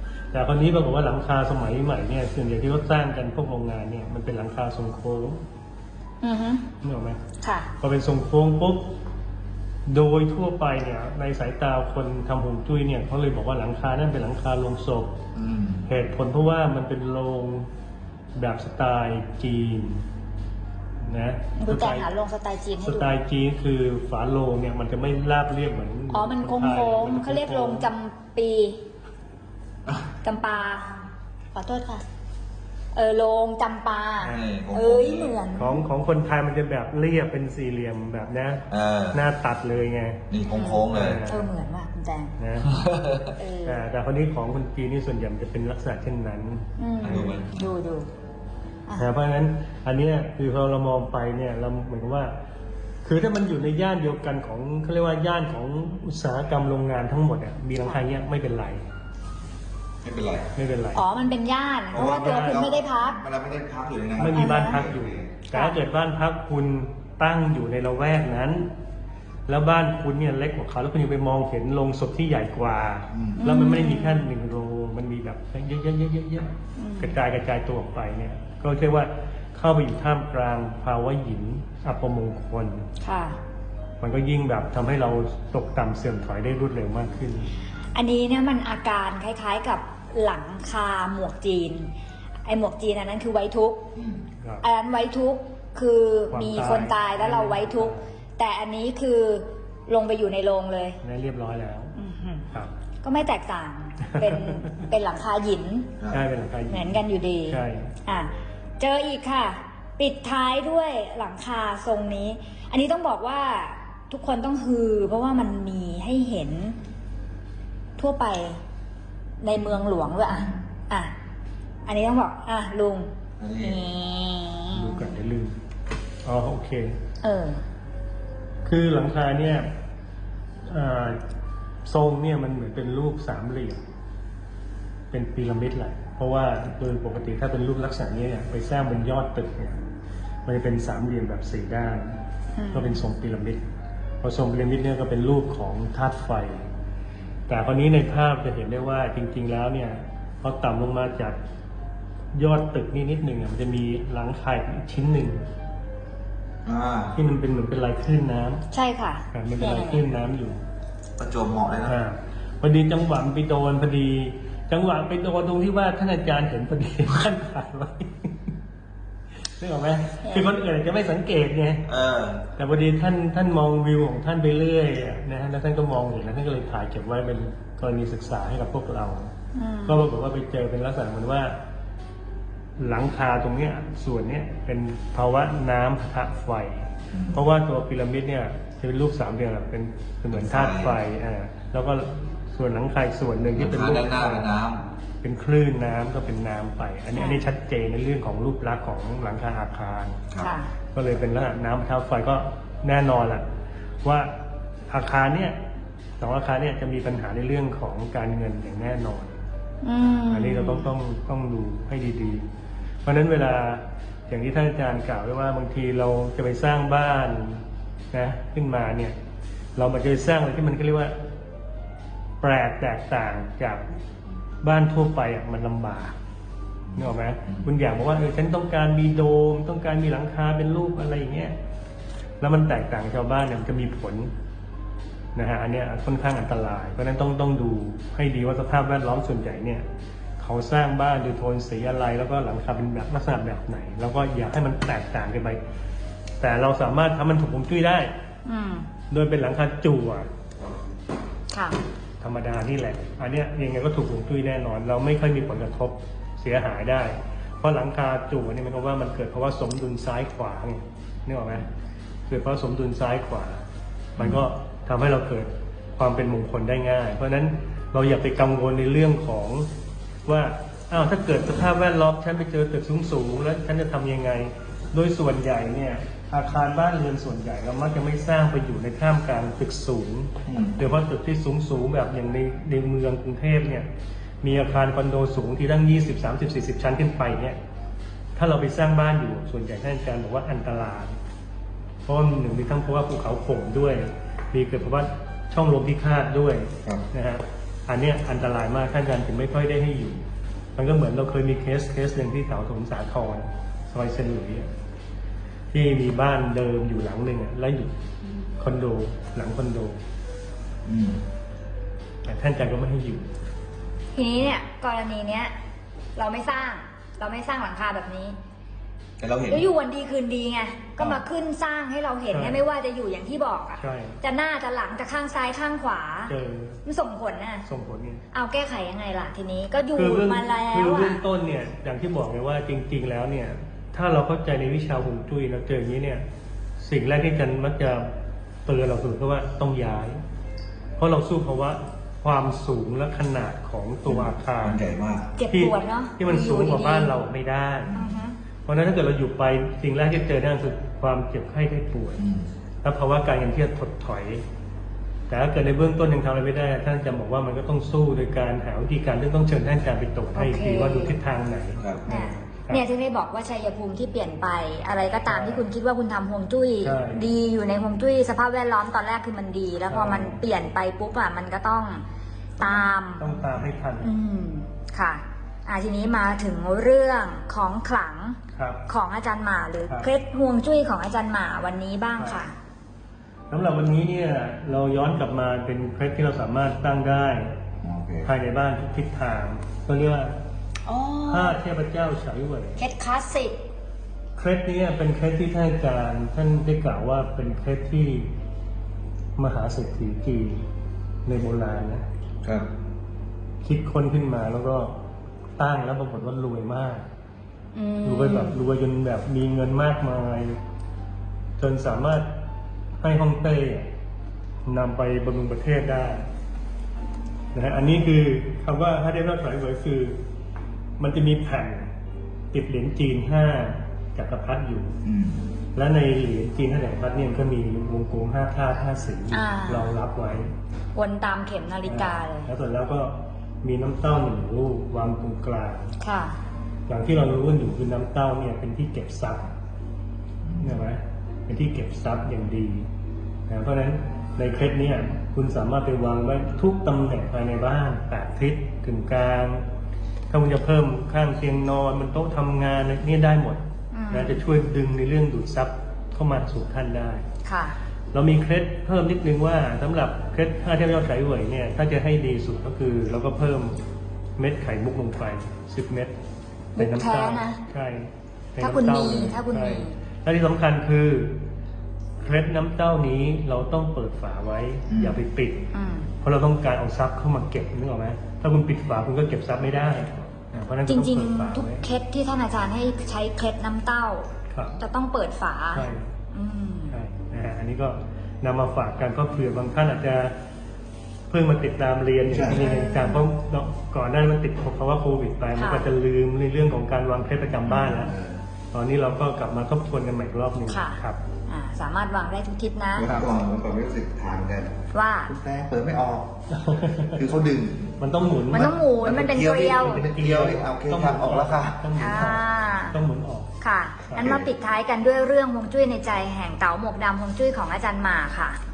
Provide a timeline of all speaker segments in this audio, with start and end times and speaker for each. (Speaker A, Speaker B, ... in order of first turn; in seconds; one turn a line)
Speaker A: 0.3-5.4
Speaker B: 6.2-6.7
Speaker A: 6.8-7.2
Speaker B: 7.4-7.7
Speaker A: 7.8-8.9
Speaker A: 9.9-15.1
Speaker C: 15.3-15.9
Speaker A: 15.9-17.7
Speaker A: 18.3-20.0
Speaker A: 21.0-22.1
Speaker B: 21.5-23.2
Speaker A: 22.8-27.9
Speaker B: 26.1-28.8
Speaker B: 30.2-30.9
Speaker B: 31.5-32.0
Speaker B: 32.9-35.8
Speaker C: 34.2-35.4
Speaker A: 35.5-40.2
Speaker C: 38.7-39.2
Speaker C: 40.3-41.2
Speaker B: 40.5-42.3
Speaker A: 40.9-41.5
Speaker A: 42.4-42.7
Speaker C: 42.6-43.3
Speaker B: 43.4-43.8
Speaker A: 43.6-47.4
Speaker B: 46.8-48.1
Speaker C: 47.0-47.7
Speaker A: 49.0-52.3
Speaker A: 53.0-58.9
Speaker C: 60.0-60.5
Speaker A: 60.5-61.0
Speaker B: 60.9-63.2
Speaker C: 61.9-65.4
Speaker A: 61.9-62.6
Speaker A: 64.2-68.7
Speaker B: 64.3-64.8
Speaker A: 69.5-82.8
Speaker C: 73.1-73.4
Speaker B: 73.4-74.3
Speaker B: 76.8-77.2
Speaker B: 83.0-83.4
Speaker A: 84.0-87.5
Speaker B: 87.9-91.9
Speaker B: 92.4-93.8
Speaker C: 93.9-94.2
Speaker B: 94.6-101.0
Speaker A: 96.3-98.0
Speaker A: 101.0-101.9
Speaker B: 101.9-102.5
Speaker B: 103.0-105.9
Speaker A: 104.0-104.8
Speaker C: 106.0-106.2
Speaker A: 106.1-107.9
Speaker B: 106.7-116.8
Speaker B: 118.0-118.6
Speaker B: 119.4-121.1
Speaker C: 119.5-120.6
Speaker B: 121.8-125.1
Speaker C: 123.4-123.8
Speaker A: 124.7-125.6
Speaker A: 126.2-127.0
Speaker B: 127.2-127.6
Speaker A: 128.6-129.7
Speaker A: 130.6-131.2
Speaker A: 131.8-133.8
Speaker A: 135.1-139.8
Speaker A: 140.4-142.2
Speaker B: 142.6-143.0
Speaker A: 142.7-143.6
Speaker A: 144.2-146.7
Speaker A: 147.5-151.4
Speaker A: 152.3-155.4
Speaker C: 156.6-157.1
Speaker A: 157.1-158.6
Speaker B: 158.7-160.0
Speaker A: 159.3-160.6
Speaker C: 161.2-162.0
Speaker A: 161.8-168.5
Speaker A: 169.6-171.8
Speaker B: 170.2-170.5
Speaker C: 171.9-172.4
Speaker A: 172.6-179.3
Speaker B: 179.5-180.1
Speaker A: 179.8-181.6
Speaker A: 182.8-194.5
Speaker C: 187.1-187.4
Speaker C: 190.3-191.0
Speaker C: 193.5-194.8
Speaker A: 195.2-200.2
Speaker B: 197.1-197.4
Speaker B: 200.4-200.7
Speaker A: 200.9-203.4
Speaker A: 204.0-204.3
Speaker A: 204.9-205.6
Speaker A: 206.2-209.3
Speaker B: 209.8-210.9
Speaker A: 210.3-212.4
Speaker A: 213.0-219.2
Speaker A: 219.8-221.1
Speaker A: 222.4-223.8
Speaker A: 224.6-226.1
Speaker C: 226.9-227.7
Speaker A: 226.9-231.6
Speaker A: 232.4-234.3
Speaker A: 235.3-239.8
Speaker A: 240.4-245.6
Speaker A: 246.4-248.1
Speaker B: 248.4-248.9
Speaker A: 249.1-250.3
Speaker B: 251.5-251.8
Speaker A: 252.2-261.7
Speaker A: 262.3-263.6
Speaker A: 264.1-269.7
Speaker C: 264.2-264.4
Speaker A: 270.2-283.9
Speaker C: 280.4-280.8
Speaker A: 284.4-287.6
Speaker A: 288.4-291.1
Speaker A: 292.1-300.2
Speaker A: 300.8-304.7
Speaker A: 305.7-307.9
Speaker A: 308.6-310.0
Speaker C: 310.9-311.2
Speaker A: 312.2-313.3
Speaker B: 314.1-315.5
Speaker B: 316.1-318.4
Speaker C: 319.2-319.7
Speaker B: 319.5-326.3
Speaker A: 322.3-322.6
Speaker A: 323.8-324.2
Speaker A: 326.3-326.8
Speaker B: 326.8-327.6
Speaker A: 327.6-328.2
Speaker B: 328.3-331.2
Speaker A: 329.9-336.2
Speaker A: 336.8-338.1
Speaker A: 338.6-340.2
Speaker A: 341.0-344.8
Speaker C: 344.1-345.3
Speaker B: 345.4-347.1
Speaker A: 345.5-347.9
Speaker C: 347.9-348.2
Speaker B: 347.9-348.4
Speaker A: 348.6-352.2
Speaker C: 352.2-352.5
Speaker A: 352.8-354.4
Speaker A: 355.3-362.8
Speaker B: 360.3-361.2
Speaker C: 361.8-362.0
Speaker B: 362.1-372.0
Speaker A: 365.3-365.6
Speaker A: 366.8-367.3
Speaker A: 369.9-370.4
Speaker B: 372.6-373.3
Speaker A: 372.6-374.1
Speaker B: 374.0-382.5
Speaker A: 378.5-378.8
Speaker A: 383.5-387.5
Speaker C: 387.8-388.3
Speaker A: 388.2-390.4
Speaker B: 390.9-391.6
Speaker A: 391.3-392.8
Speaker B: 392.8-393.6
Speaker A: 394.4-398.3
Speaker A: 399.4-400.6
Speaker A: 401.2-402.0
Speaker A: 403.6-405.0
Speaker A: 405.6-407.1
Speaker B: 407.7-408.6
Speaker A: 408.0-410.6
Speaker A: 411.6-412.3
Speaker A: 413.0-413.9
Speaker A: 414.6-416.2
Speaker A: 417.5-420.2
Speaker A: 421.0-421.9
Speaker A: 422.5-425.0
Speaker C: 425.0-425.5
Speaker A: 425.7-430.5
Speaker B: 429.3-429.9
Speaker B: 430.9-432.5
Speaker A: 431.9-435.9
Speaker B: 436.0-436.4
Speaker A: 436.9-439.5
Speaker C: 440.4-440.8
Speaker A: 440.6-442.9
Speaker A: 443.5-449.6
Speaker A: 450.3-457.2
Speaker B: 453.9-454.4
Speaker B: 457.4-457.8
Speaker A: 458.1-463.8
Speaker A: 464.4-466.1
Speaker B: 466.8-467.6
Speaker A: 466.8-471.4
Speaker B: 468.6-469.9
Speaker A: 472.2-475.6
Speaker C: 474.9-475.2
Speaker B: 475.7-476.1
Speaker A: 476.2-481.8
Speaker B: 480.9-487.0
Speaker A: 484.5-484.8
Speaker A: 485.7-486.1
Speaker A: 486.9-490.3
Speaker A: 491.3-498.1
Speaker C: 492.3-492.6
Speaker B: 492.5-493.2
Speaker B: 495.5-495.9
Speaker C: 497.6-498.4
Speaker A: 498.7-501.2
Speaker B: 500.7-503.1
Speaker C: 502.9-506.3
Speaker B: 504.9-505.3
Speaker A: 506.5-507.2
Speaker C: 507.1-508.0
Speaker A: 508.0-508.7
Speaker C: 508.5-512.0
Speaker B: 508.5-510.0
Speaker A: 509.8-513.5
Speaker B: 512.0-513.0
Speaker B: 513.6-518.6
Speaker C: 514.1-514.5